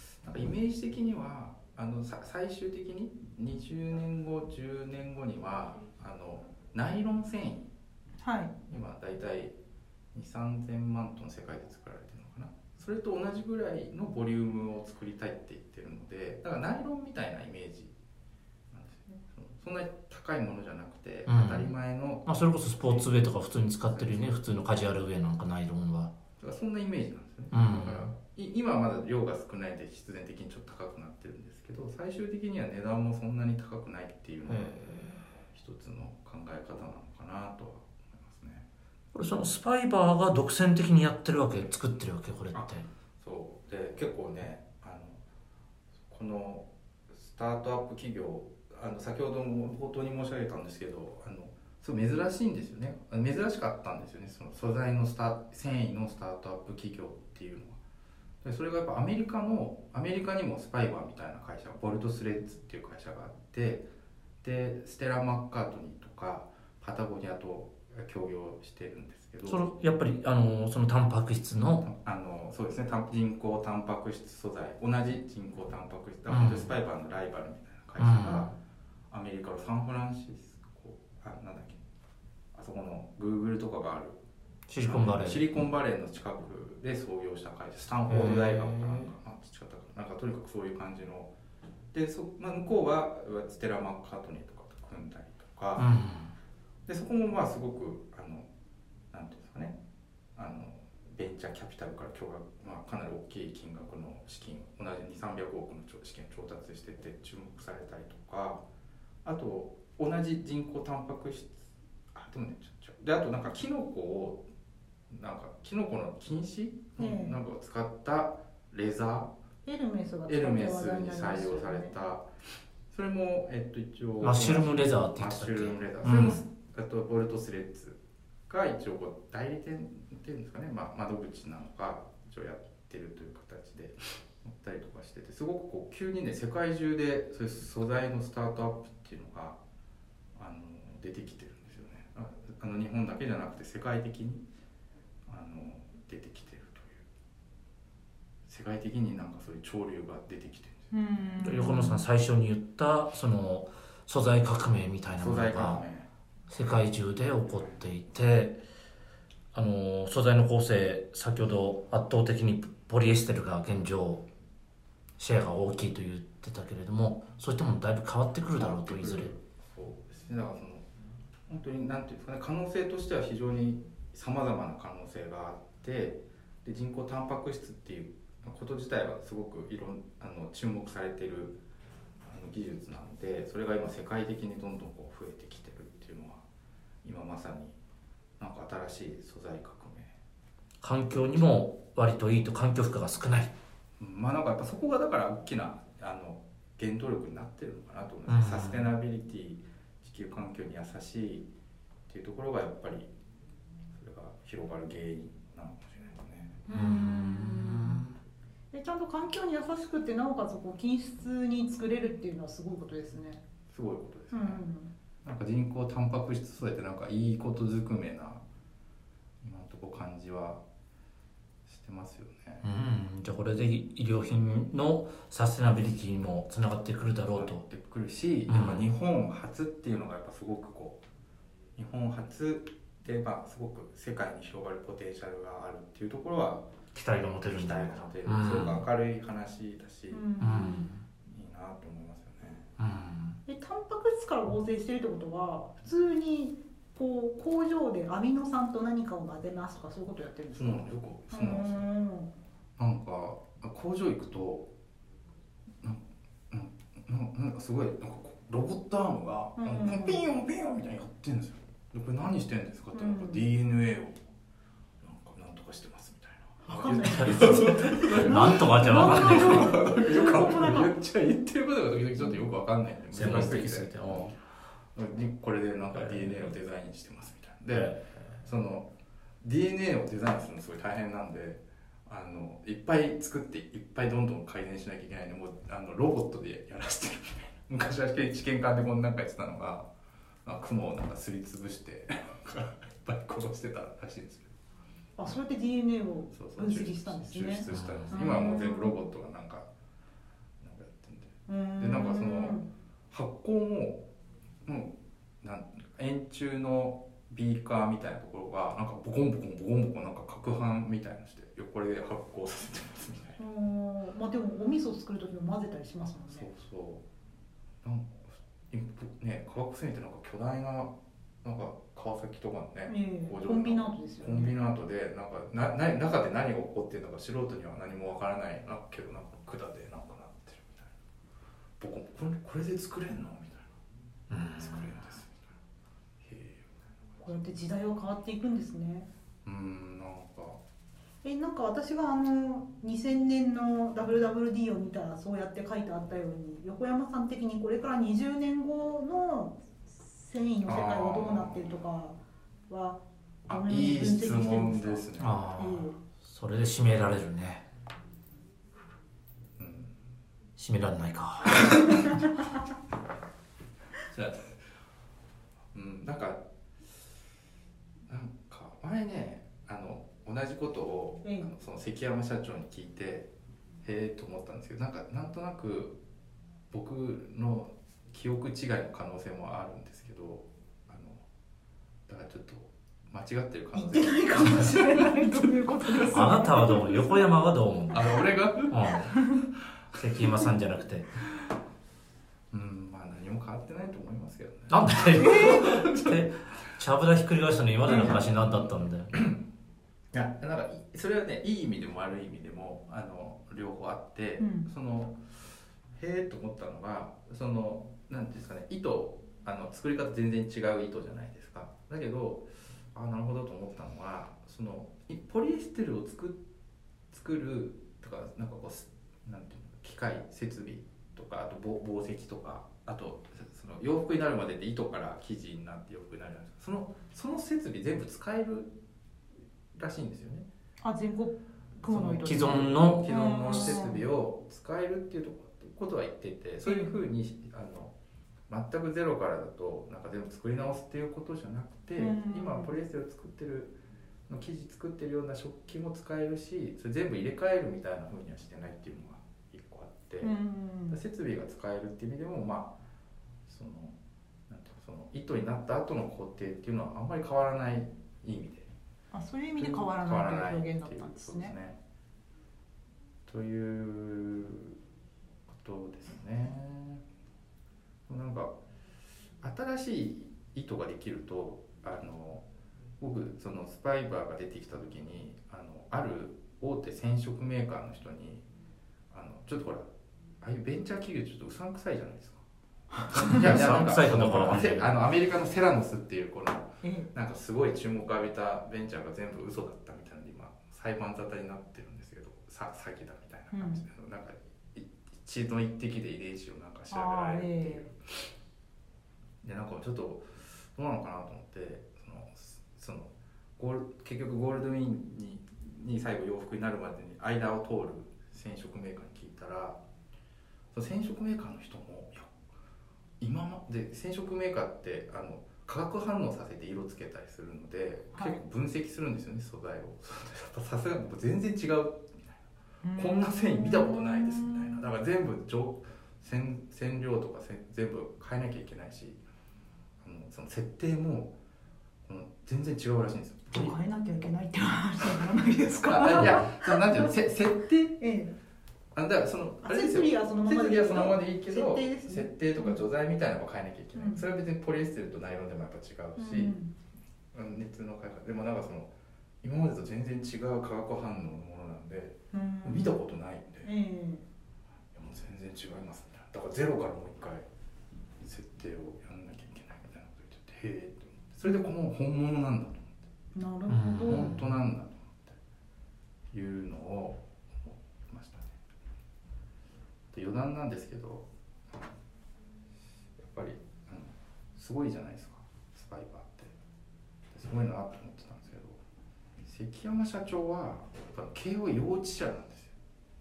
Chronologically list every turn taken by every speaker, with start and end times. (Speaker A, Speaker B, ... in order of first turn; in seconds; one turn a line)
Speaker A: 0.2-7.7
Speaker B: 8.2-8.5
Speaker A: 8.7-9.5
Speaker A: 10.1-17.9
Speaker A: 18.7-23.1
Speaker C: 21.3-21.7
Speaker C: 22.2-26.1
Speaker A: 23.9-24.4
Speaker A: 26.4-34.9
Speaker C: 27.5-28.1
Speaker C: 34.5-35.2
Speaker A: 35.5-38.6
Speaker C: 39.1-42.9
Speaker A: 42.5-45.2
Speaker A: 46.1-57.8
Speaker A: 58.4-63.9
Speaker A: 64.4-69.7
Speaker C: 69.5-71.8
Speaker A: 71.8-78.5
Speaker C: 76.3-76.7
Speaker C: 78.0-78.5
Speaker A: 79.1-81.8
Speaker A: 82.5-84.2
Speaker C: 84.7-85.4
Speaker A: 84.8-91.3
Speaker C: 88.1-89.1
Speaker A: 91.9-95.9
Speaker C: 95.8-96.3
Speaker A: 96.9-98.5
Speaker A: 99.1-99.8
Speaker A: 100.3-108.6
Speaker A: 109.2-114.4
Speaker A: 115.1-119.3
Speaker B: 117.0-117.3
Speaker B: 119.6-121.9
Speaker A: 120.3-122.3
Speaker A: 122.9-139.6
Speaker C: 124.2-126.4
Speaker A: 140.3-144.4
Speaker A: 145.3-147.0
Speaker A: 148.5-150.9
Speaker B: 150.9-152.0
Speaker C: 151.4-155.8
Speaker A: 155.2-156.1
Speaker C: 156.5-158.6
Speaker C: 159.5-164.2
Speaker C: 165.2-169.3
Speaker A: 168.5-170.8
Speaker A: 171.5-181.6
Speaker A: 182.2-186.4
Speaker A: 187.0-187.8
Speaker A: 188.4-190.1
Speaker C: 190.8-193.5
Speaker A: 194.0-201.5
Speaker C: 198.3-198.9
Speaker A: 202.1-203.1
Speaker A: 203.9-206.6
Speaker B: 206.7-208.0
Speaker C: 206.7-208.2
Speaker B: 208.7-213.4
Speaker A: 213.7-214.6
Speaker B: 214.3-214.9
Speaker A: 215.2-218.4
Speaker A: 219.4-220.6
Speaker A: 221.7-222.6
Speaker C: 222.6-227.6
Speaker A: 227.3-231.0
Speaker C: 228.5-228.9
Speaker A: 231.8-236.7
Speaker C: 236.9-238.8
Speaker A: 237.4-240.2
Speaker B: 240.1-240.9
Speaker C: 240.4-241.0
Speaker A: 241.2-242.7
Speaker C: 242.8-243.4
Speaker B: 243.5-250.8
Speaker A: 250.5-251.9
Speaker B: 251.3-252.3
Speaker A: 252.8-254.7
Speaker A: 255.8-264.1
Speaker B: 259.6-260.2
Speaker B: 262.9-263.4
Speaker A: 265.0-274.3
Speaker B: 266.6-270.9
Speaker C: 267.0-269.8
Speaker C: 273.1-274.3
Speaker A: 274.9-278.9
Speaker C: 275.9-276.5
Speaker C: 277.7-278.2
Speaker A: 279.4-289.9
Speaker A: 290.4-294.5
Speaker B: 295.2-299.0
Speaker A: 296.3-299.6
Speaker C: 297.7-298.2
Speaker A: 300.6-302.6
Speaker B: 301.5-302.7
Speaker A: 303.1-304.1
Speaker A: 304.6-313.4
Speaker B: 313.4-316.5
Speaker A: 316.1-317.0
Speaker A: 317.8-330.9
Speaker B: 322.9-324.6
Speaker A: 331.8-333.7
Speaker C: 334.3-335.0
Speaker A: 334.6-335.4
Speaker A: 336.2-337.2
Speaker B: 337.2-339.1
Speaker A: 339.4-340.6
Speaker B: 341.2-352.2
Speaker A: 350.6-351.8
Speaker B: 352.7-355.9
Speaker A: 353.5-355.5
Speaker C: 355.2-357.7
Speaker A: 359.6-359.9
Speaker C: 360.6-362.1
Speaker A: 364.1-364.6
Speaker A: 365.7-366.4
Speaker A: 368.1-373.3
Speaker B: 371.2-371.5
Speaker A: 373.8-376.0
Speaker A: 376.7-381.2
Speaker A: 382.1-385.2
Speaker B: 383.7-386.9
Speaker A: 385.9-386.2
Speaker C: 386.1-389.1
Speaker A: 387.9-389.1
Speaker C: 389.9-391.1
Speaker A: 389.9-390.3
Speaker A: 392.5-396.2
Speaker C: 394.7-399.1
Speaker B: 395.1-395.7
Speaker B: 397.9-398.2
Speaker A: 397.9-399.4
Speaker A: 400.1-405.2
Speaker B: 404.4-404.7
Speaker A: 405.9-416.4
Speaker A: 417.1-428.7
Speaker A: 429.7-430.5
Speaker B: 430.8-434.0
Speaker A: 431.9-437.9
Speaker C: 432.2-433.8
Speaker B: 436.6-436.9
Speaker A: 438.5-443.8
Speaker B: 442.0-442.7
Speaker A: 444.3-450.3
Speaker B: 450.2-451.0
Speaker A: 450.9-452.7
Speaker A: 453.5-453.9
Speaker A: 454.5-458.7
Speaker B: 459.1-461.5
Speaker A: 459.6-461.8
Speaker A: 463.3-464.8
Speaker A: 465.5-467.0
Speaker A: 468.1-468.6
Speaker A: 469.4-472.4
Speaker A: 473.0-478.4
Speaker A: 479.1-479.9
Speaker A: 480.4-482.4
Speaker A: 483.0-498.3
Speaker C: 483.2-484.9
Speaker B: 486.8-487.1
Speaker B: 493.5-493.8
Speaker B: 496.9-497.9
Speaker A: 499.4-509.8
Speaker A: 510.7-512.3
Speaker A: 513.2-529.2
Speaker B: 518.1-518.4
Speaker B: 522.8-524.8
Speaker A: 530.0-531.3
Speaker A: 532.0-533.8
Speaker B: 533.5-537.1
Speaker A: 535.8-538.0
Speaker B: 538.0-538.3
Speaker A: 538.9-546.5
Speaker B: 539.6-542.8
Speaker B: 544.0-544.2
Speaker B: 546.2-546.7
Speaker A: 547.3-548.9
Speaker A: 549.4-553.7
Speaker B: 552.3-553.0
Speaker B: 553.6-554.2
Speaker A: 554.9-557.4
Speaker A: 558.2-563.0
Speaker B: 563.3-564.3
Speaker C: 563.7-564.4
Speaker A: 564.0-565.4
Speaker A: 566.3-568.6
Speaker A: 570.1-571.9
Speaker A: 573.2-576.5
Speaker A: 577.3-578.8
Speaker A: 579.4-582.7